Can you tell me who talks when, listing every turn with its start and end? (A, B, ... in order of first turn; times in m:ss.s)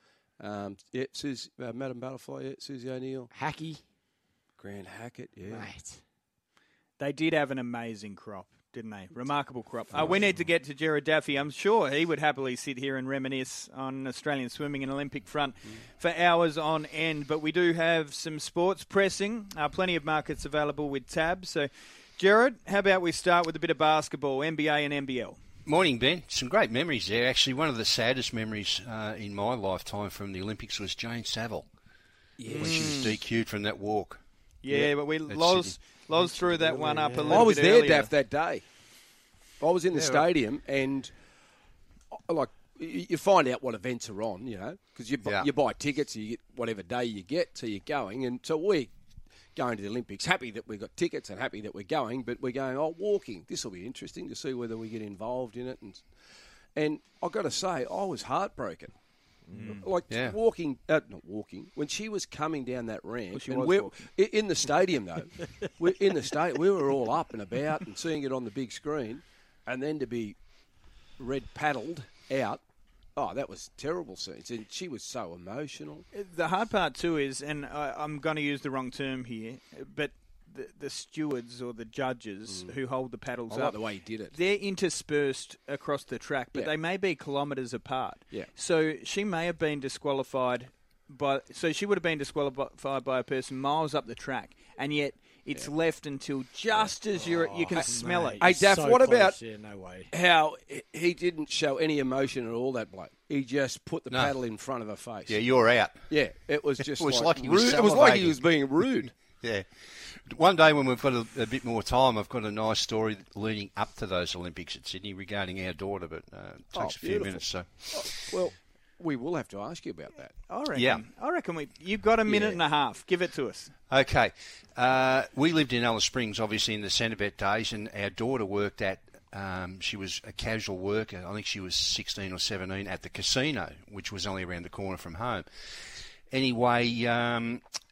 0:00.4-0:03.3 A
0:03.3-0:03.8 B
0:04.6-0:05.8 A
0:05.5-0:06.0 B
0:07.0-0:25.4 C
0:09.9-0:10.5 A
0:25.6-0:31.7 D
0:32.4-0:33.2 A
0:32.5-0:33.2 C
0:32.5-0:34.2 D
0:34.6-0:38.1 C
0:34.8-0:36.1 D
0:36.5-0:37.5 B
0:37.2-0:38.7 A
0:39.6-0:41.2 A
0:39.9-0:40.2 B
0:42.1-0:48.9 A
0:49.5-0:56.1 A
0:56.7-1:10.4 A
0:59.5-0:59.8 B
0:59.5-0:59.8 C
1:00.1-1:00.4 D
1:03.3-1:04.0 C
1:11.2-1:12.6 A
1:13.1-1:16.1 A
1:16.1-1:38.5 C
1:23.5-1:24.4 A
1:37.1-1:40.1 B
1:37.8-1:39.4 A
1:40.1-1:49.3 A
1:44.1-1:44.4 D
1:45.2-1:46.3 D
1:46.8-1:58.4 D
1:56.7-2:00.4 A
2:00.5-2:03.7 C
2:00.7-2:01.0 D
2:02.3-2:02.6 A
2:03.9-2:17.6 D